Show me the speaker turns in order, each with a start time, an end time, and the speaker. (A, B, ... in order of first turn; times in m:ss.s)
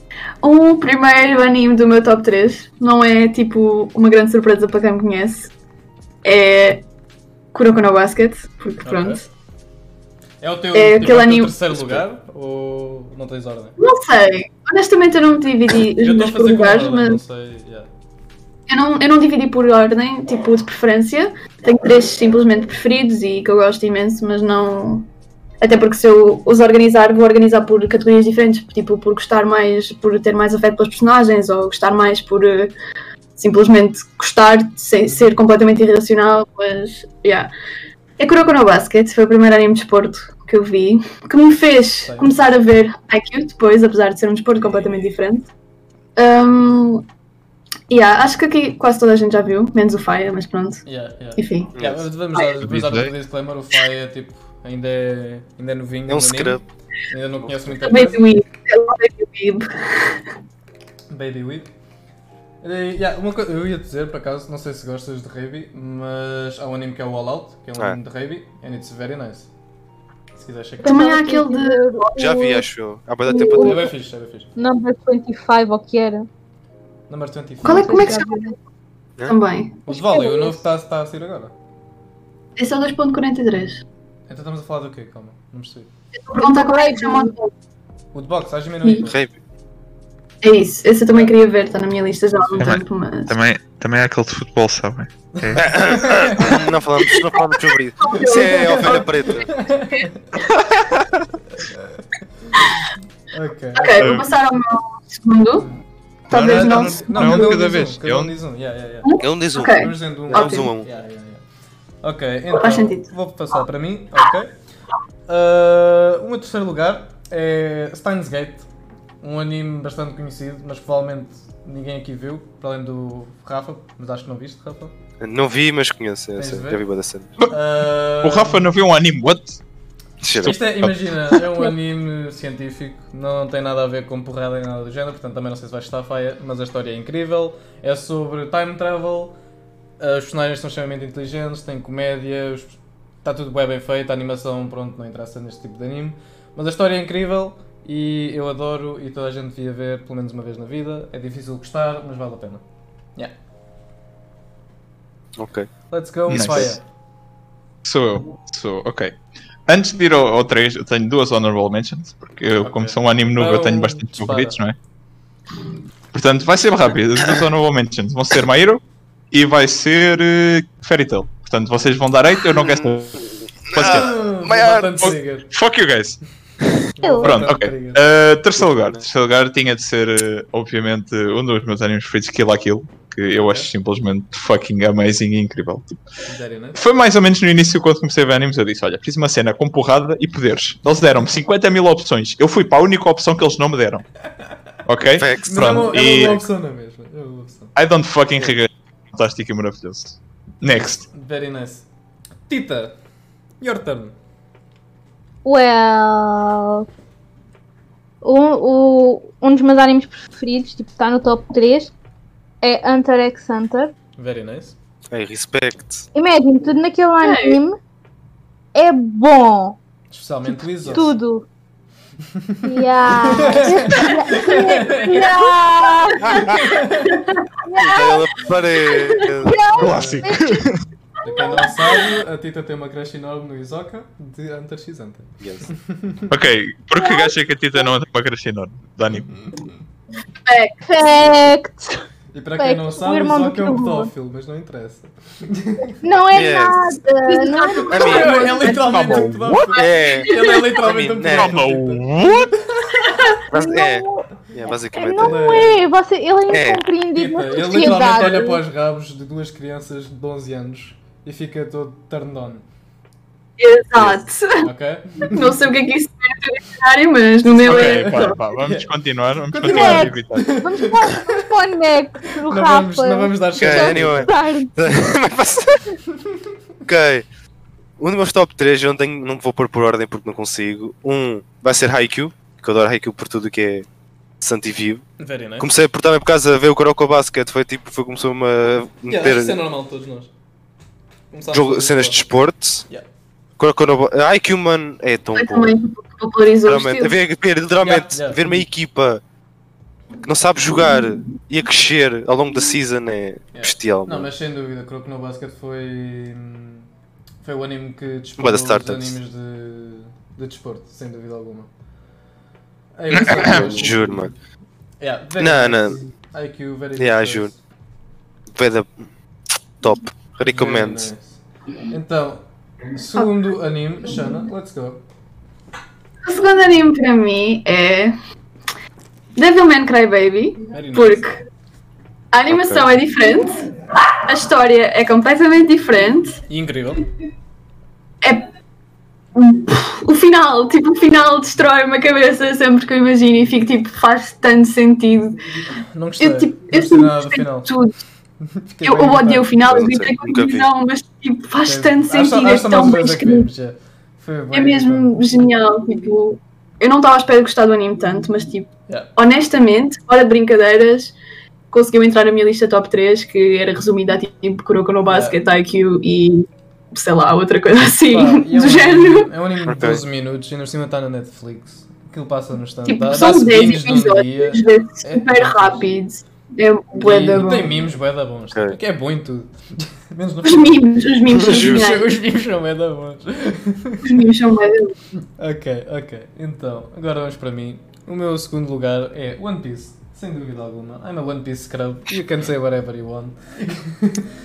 0:00.4-0:05.5 A
0:06.2-0:06.8 A
0:07.5-0:09.2 A
0:08.8-0:09.2 B
0:10.4-0:13.8 B
0:10.7-0:11.6 A
0:13.8-0:17.2 A
0:16.0-0:17.9 B
0:18.7-0:25.1 A
0:25.6-0:32.7 A
0:33.4-0:37.5 A
0:38.2-0:45.5 A
0:42.0-0:42.4 B
0:46.2-0:47.1 A
0:47.9-0:50.8 A
0:50.9-0:58.2 B
0:51.4-0:51.8 A
0:51.8-0:52.0 C
0:52.6-0:53.1 D
0:56.1-0:56.6 C
0:57.8-1:00.2 A
1:01.1-1:01.7 B
1:02.6-1:09.5 B
1:10.3-1:11.1 B
1:10.8-1:12.6 E
1:10.8-1:12.5 A
1:12.2-1:13.9 C
1:13.3-1:13.9 E
1:13.3-1:13.7 A
1:13.6-1:14.5 B
1:14.6-1:16.3 E
1:17.1-1:18.2 B
1:17.6-1:18.6 A
1:17.7-1:18.5 E
1:19.2-1:19.8 A
1:19.9-1:21.5 B
1:19.9-1:20.6 E
1:22.6-1:23.8 A
1:24.3-1:25.9 B
1:26.3-1:27.5 A
1:26.4-1:27.3 E
1:28.1-1:29.2 B
1:29.1-1:29.4 C
1:30.4-1:33.4 A
1:31.1-1:31.4 B
1:32.4-1:32.8 B
1:32.6-1:35.7 D
1:35.3-1:36.6 B
1:35.6-1:39.6 C
1:38.0-1:39.1 A
1:38.2-1:40.2 B
1:40.6-1:41.3 D
1:41.6-1:42.6 B
1:43.3-1:44.2 B
1:43.8-1:45.7 A
1:44.0-1:44.3 D
1:45.6-1:51.4 B
1:46.3-1:47.6 A
1:46.3-1:48.3 D
1:49.0-1:50.7 A
1:49.2-1:50.9 C
1:52.0-1:54.5 B
1:52.5-1:53.1 A
1:55.3-1:58.7 B
1:59.2-2:04.9 B
2:05.2-2:07.3 C
2:06.4-2:06.8 B
2:07.5-2:08.7 B
2:08.2-2:09.6 D
2:10.2-2:10.6 C
2:10.2-2:11.4 D
2:10.4-2:19.4 B
2:20.0-2:32.6 B
2:35.4-2:35.7 C
2:35.9-2:36.8 B
2:36.3-2:36.8 D
2:37.8-2:44.8 D
2:42.6-2:44.6 B
2:46.1-2:54.1 D
2:52.5-2:52.9 C
2:53.7-2:55.2 C
2:53.8-2:55.5 B
2:55.0-2:56.2 D
2:57.0-2:58.0 B
2:57.0-2:57.3 E
2:57.2-3:06.0 D
2:58.6-2:59.0 C
3:03.3-3:03.7 B
3:06.3-3:06.8 B
3:06.8-3:14.0 D
3:14.9-3:16.4 D
3:15.1-3:15.7 C
3:15.4-3:17.7 B
3:17.8-3:21.1 D
3:21.1-3:21.9 B
3:22.5-3:23.0 B
3:23.6-3:24.2 B
3:25.4-3:26.9 E
3:28.2-3:31.9 E
3:32.6-3:33.9 E
3:34.2-3:34.8 B
3:35.1-3:36.1 C
3:36.2-3:37.8 E
3:37.2-3:37.6 A
3:38.8-3:39.8 E
3:40.1-3:41.1 B
3:40.9-3:41.4 E
3:42.3-3:45.4 B
3:42.6-3:46.7 E
3:43.4-3:44.5 A
3:46.2-3:46.7 C
3:46.5-3:47.2 B
3:47.0-3:47.5 A
3:47.6-3:50.7 E
3:47.8-3:49.6 C
3:49.8-3:50.4 B
3:49.8-3:50.8 D
3:51.2-3:56.3 B
3:51.3-3:51.7 E
3:51.4-3:51.7 A
3:55.4-3:55.7 C
3:56.3-3:59.3 D
3:57.0-3:57.3 E
4:00.5-4:01.2 A
4:00.9-4:02.0 E
4:02.3-4:06.0 B
4:02.6-4:04.1 E
4:06.0-4:08.4 E
4:06.3-4:06.9 C
4:07.2-4:09.2 A
4:07.9-4:08.4 C
4:08.0-4:13.2 B
4:08.8-4:09.7 D
4:09.8-4:11.5 C
4:09.8-4:10.7 A
4:11.3-4:12.5 D
4:13.5-4:15.6 C
4:13.5-4:14.3 E
4:14.9-4:18.6 E
4:15.2-4:15.8 B
4:16.5-4:16.8 C
4:17.1-4:22.6 B
4:23.6-4:24.7 A
4:24.6-4:25.6 B
4:25.2-4:28.4 A
4:27.4-4:28.9 B
4:27.6-4:30.5 D
4:29.5-4:31.4 B
4:29.6-4:34.7 E
4:32.3-4:34.3 B
4:33.6-4:36.0 C
4:36.8-4:37.2 C
4:38.0-4:43.9 C
4:44.4-4:45.1 C
4:45.2-4:45.7 B
4:45.6-4:49.6 C
4:49.1-4:50.3 B
4:51.3-4:52.2 B
4:51.5-4:52.8 C
4:53.6-4:55.8 C
4:55.4-4:57.2 A
4:56.7-4:59.2 C
4:57.8-4:58.6 B
5:00.2-5:04.3 C
5:03.5-5:06.9 B
5:07.4-5:11.7 B
5:08.4-5:09.2 C
5:13.0-5:14.3 B
5:13.1-5:13.7 D
5:13.4-5:14.3 C
5:15.0-5:17.6 B
5:15.4-5:16.0 C
5:17.0-5:17.5 C
5:18.5-5:19.0 C
5:19.8-5:21.1 C
5:20.4-5:25.0 B
5:26.2-5:28.2 A
5:29.4-5:31.4 A
5:30.7-5:31.2 B
5:32.3-5:36.4 A
5:36.5-5:37.0 B
5:39.4-5:45.4 A
5:45.9-5:47.7 B
5:46.2-5:47.9 A
5:48.4-5:49.7 B
5:48.8-5:53.5 A
5:49.7-5:50.7 C
5:51.6-5:55.2 B
5:54.5-6:01.2 A
6:01.7-6:09.3 A
6:05.1-6:05.4 B
6:08.1-6:15.9 B
6:09.6-6:10.0 C
6:12.9-6:17.8 A
6:17.0-6:20.8 B
6:20.4-6:22.1 A
6:21.3-6:21.8 C
6:21.4-6:24.2 B
6:24.0-6:24.9 A
6:25.4-6:34.3 B